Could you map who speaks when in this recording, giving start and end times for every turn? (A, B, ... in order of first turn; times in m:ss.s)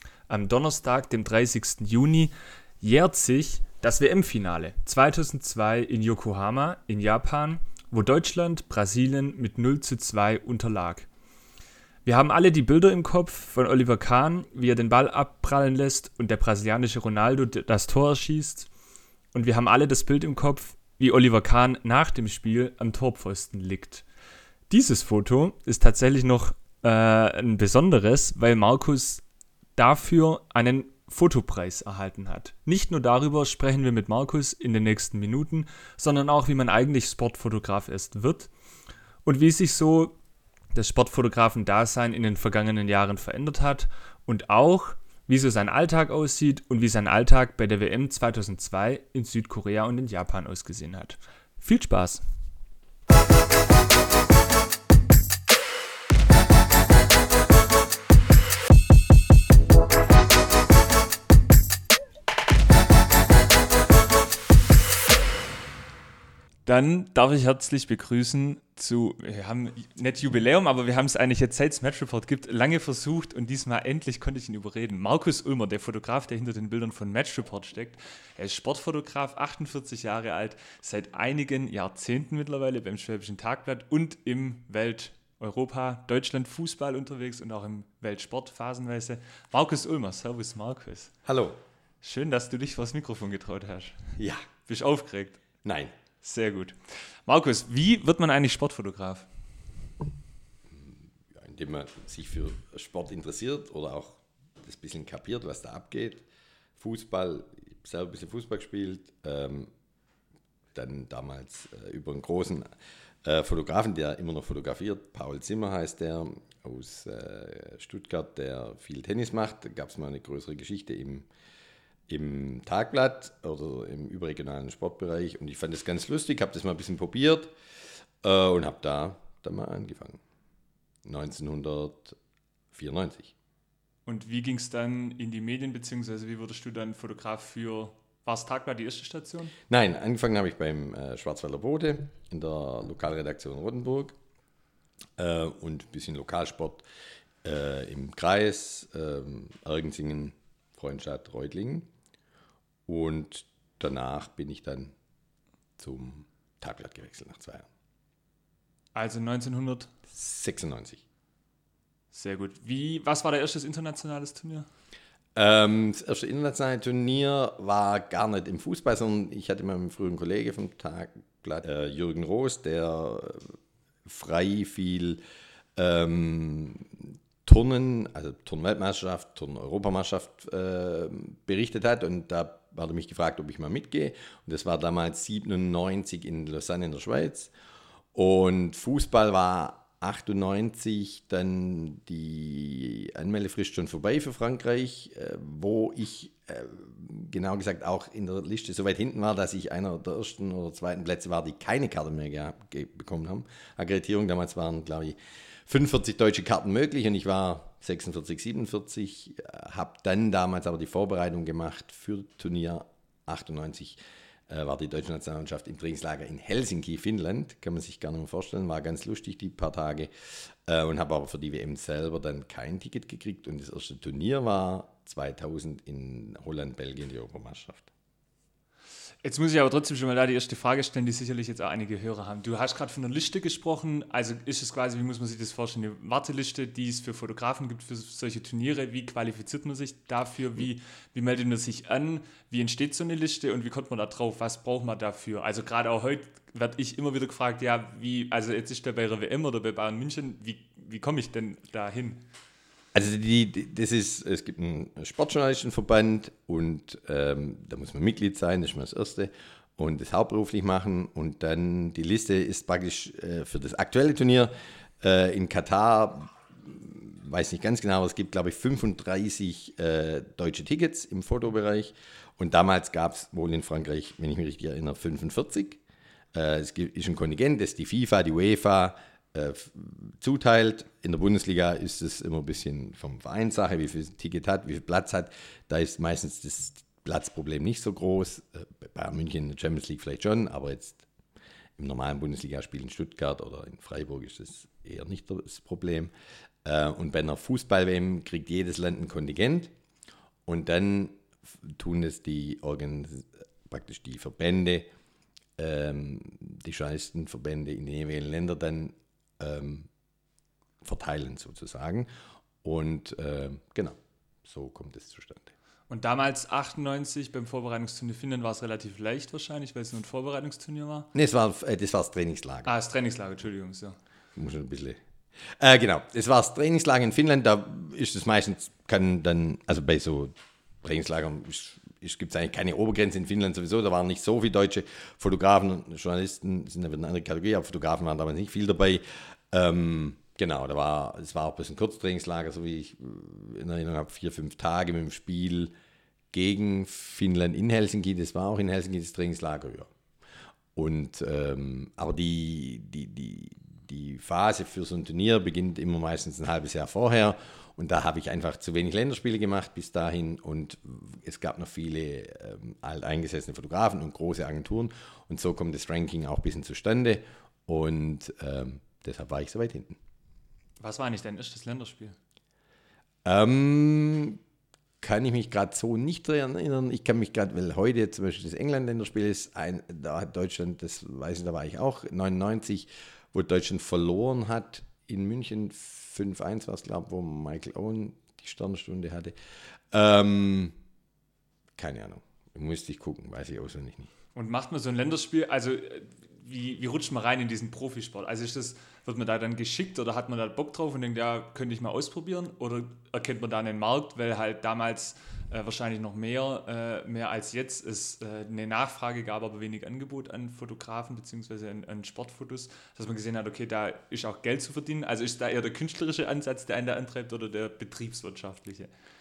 0:00.3-0:11.1 A
0:12.0-0:18.7 A
0:19.3-0:24.0 A
0:24.7-0:29.2 A
0:29.8-0:38.5 A
0:39.2-0:40.1 A
0:40.7-0:52.2 A
1:06.6-1:31.1 A
1:31.2-1:31.6 B
1:32.0-1:34.1 A
1:34.2-1:34.4 B
1:34.6-1:35.4 A
1:35.6-1:35.9 B
1:36.2-1:39.3 A
1:40.7-1:46.2 B
1:46.8-1:49.7 B
1:50.7-1:52.7 B
1:53.2-2:01.3 B
2:02.1-2:07.5 B
2:08.2-2:10.2 B
2:11.0-2:12.2 B
2:12.7-2:13.3 B
2:14.0-2:19.5 A
2:19.7-2:24.2 B
2:25.2-2:26.8 B
2:27.4-2:31.9 B
2:32.9-2:34.9 B
2:35.8-2:37.7 B
2:38.9-2:39.9 A
2:40.1-2:41.0 B
2:42.1-2:44.7 A
2:45.3-2:53.5 B
2:54.0-2:55.2 B
2:55.8-3:07.5 B
3:08.1-3:25.1 B
3:25.7-3:47.9 B
3:49.2-4:12.2 A
4:12.9-4:35.8 B
4:36.3-4:51.0 B
4:51.8-4:56.1 B
4:56.6-4:59.7 B
5:00.4-5:04.9 B
5:05.6-5:09.9 B
5:10.8-5:12.1 B
5:12.6-5:15.5 B
5:15.9-5:21.1 A
5:21.1-5:22.7 B
5:22.6-5:24.0 A
5:24.4-5:25.0 B
5:25.6-5:45.7 B
5:46.3-5:49.9 B
5:50.7-6:10.0 B
6:10.8-6:12.2 A
6:13.2-6:14.4 B
6:15.0-6:29.3 B
6:29.9-6:30.7 B
6:31.8-6:34.1 B
6:34.3-6:58.9 A